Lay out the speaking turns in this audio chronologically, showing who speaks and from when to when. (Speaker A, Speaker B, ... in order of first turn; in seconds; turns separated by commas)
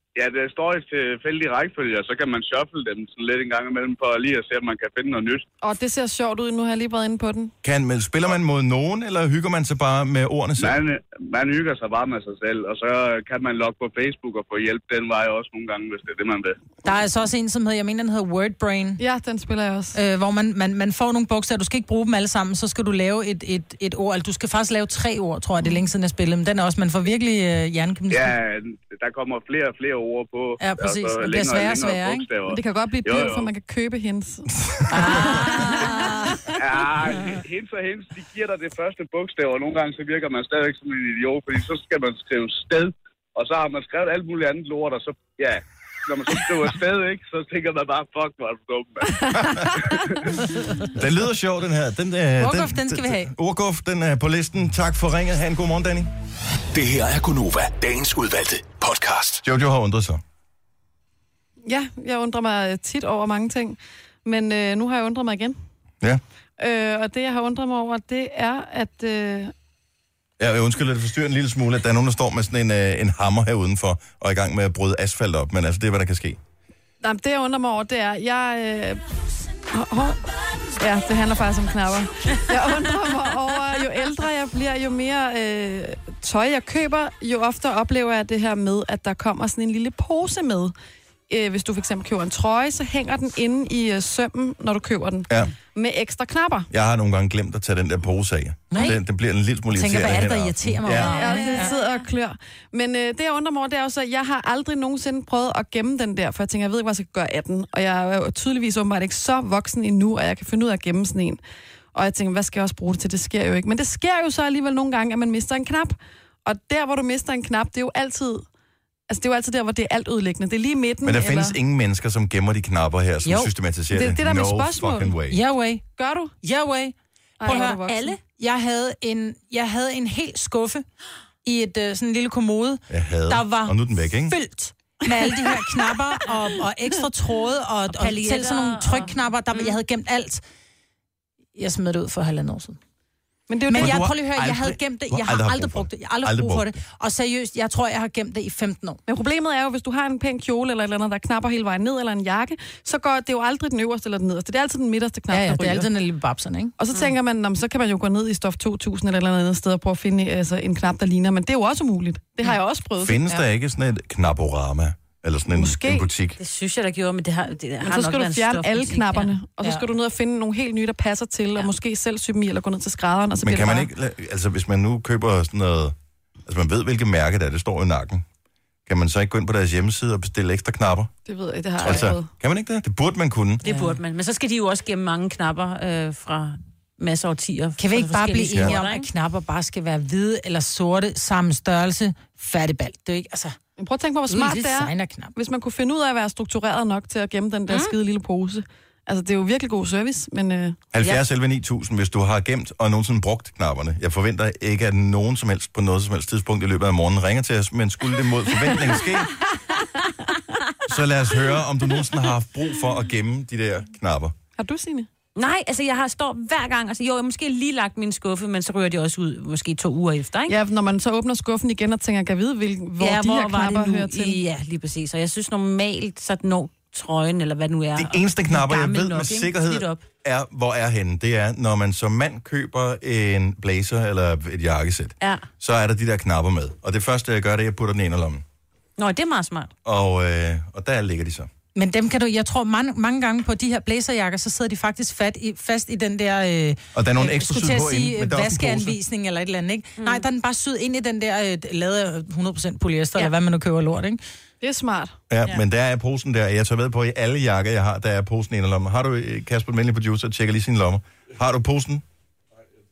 Speaker A: 0.2-5.4, Speaker B: 5.6-7.5, Speaker C: 7.6-10.8, Speaker A: 10.6-16.6, Speaker D: 16.8-19.0, Speaker B: 19.0-20.0, Speaker D: 19.9-28.4, Speaker A: 28.1-33.5, Speaker D: 30.6-32.3, Speaker B: 32.5-36.0, Speaker D: 34.9-36.4, Speaker E: 35.1-36.2, Speaker A: 36.6-50.1, Speaker B: 49.4-50.0, Speaker C: 50.9-56.1, Speaker D: 52.4-53.3, Speaker F: 56.7-59.4, Speaker C: 59.4-60.2, Speaker B: 61.6-65.6, Speaker B: 66.6-69.5, Speaker C: 70.4-76.4, Speaker B: 77.0-79.0, Speaker B: 79.7-80.2, Speaker B: 80.8-90.7, Speaker B: 91.3-96.7, Speaker C: 96.7-101.2, Speaker D: 98.7-99.0, Speaker D: 99.7-101.7, Speaker B: 101.0-111.4, Speaker E: 101.0-101.9, Speaker B: 111.9-118.5, Speaker B: 119.1-121.6, Speaker C: 121.0-125.4, Speaker D: 123.2-123.5, Speaker B: 123.9-125.1, Speaker D: 125.3-125.9, Speaker B: 126.0-126.3, Speaker D: 126.4-130.9, Speaker B: 127.4-128.2, Speaker E: 127.5-128.2, Speaker D: 131.4-140.4, Speaker C: 132.9-134.4, Speaker E: 137.9-139.8, Speaker D: 141.6-142.8, Speaker B: 143.5-144.1, Speaker D: 143.7-149.0, Speaker C: 143.7-146.8, Speaker B: 149.1-155.9, Speaker D: 155.3-156.7, Speaker B: 156.8-163.4, Speaker C: 163.0-166.4, Speaker B: 165.5-166.1, Speaker E: 166.4-169.3, Speaker B: 167.8-173.9, Speaker C: 173.4-175.9, Speaker C: 176.5-178.2, Speaker C: 178.9-181.1, Speaker B: 181.3-182.3, Speaker C: 181.8-183.6, Speaker E: 183.6-189.1, Speaker D: 183.7-184.0, Speaker D: 187.8-193.6, Speaker B: 193.8-200.8, Speaker D: 194.3-195.3, Speaker E: 197.7-197.9, Speaker C: 200.9-209.3, Speaker C: 210.9-214.3, Speaker B: 214.6-215.1, Speaker E: 215.4-220.6, Speaker B: 220.5-224.4, Speaker E: 223.0-230.0, Speaker C: 227.9-238.4, Speaker E: 235.2-235.5, Speaker E: 239.0-239.7, Speaker C: 239.8-241.5, Speaker D: 241.8-254.2, Speaker C: 246.9-249.0, Speaker E: 250.0-250.2, Speaker B: 254.6-255.2, Speaker C: 255.3-262.0